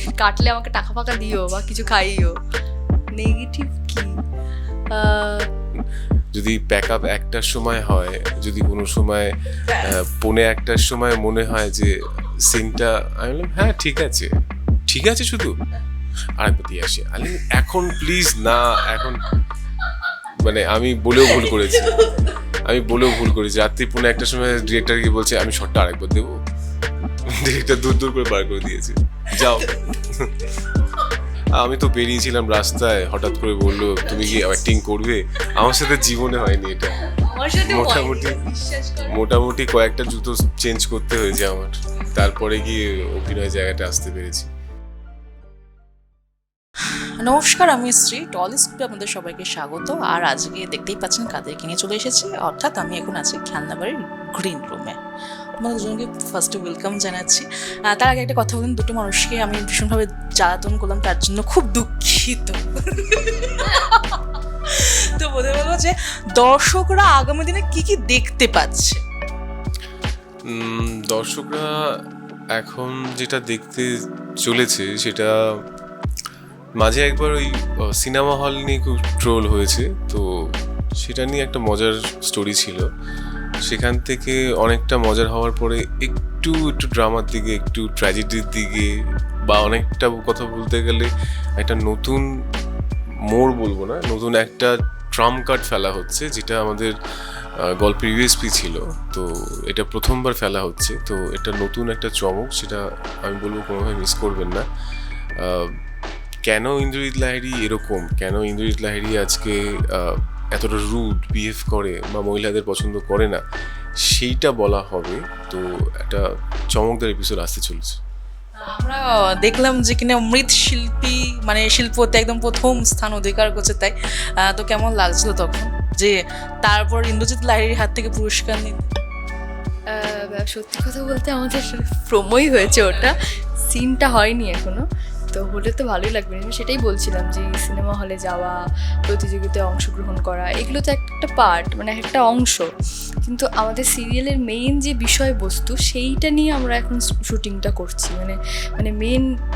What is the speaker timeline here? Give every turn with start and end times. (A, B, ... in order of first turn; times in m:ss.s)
0:00.2-0:02.4 A
0:03.2-0:04.1 A
0:04.9-0:05.4 A
0:06.3-0:14.3 B
0:14.9-0:15.5 B
0:16.4-0:19.2 B
0:20.3-0:22.1 B
0:22.7-0:26.4 B
0:27.3-0:30.4 B
0:31.6-0:36.9 B
0:34.1-0:34.5 A
0:37.0-0:39.2 A
0:37.6-0:38.4 B
0:39.1-0:44.5 B
0:47.2-0:55.0 C
0:55.6-1:09.0 C
1:10.5-1:11.7 B
1:12.6-1:13.9 B
1:14.4-1:15.3 B
1:16.8-1:20.3 B
1:21.0-1:22.9 B
1:23.7-1:28.9 B
1:29.5-1:32.2 B
1:33.3-1:37.0 B
1:37.6-1:44.7 B
1:45.4-1:45.7 B
1:46.5-1:53.4 B
1:54.0-1:58.0 B
1:58.7-2:08.9 C
2:09.9-2:13.2 A
2:13.7-2:18.6 A
2:19.1-2:22.7 A
2:23.2-2:29.2 A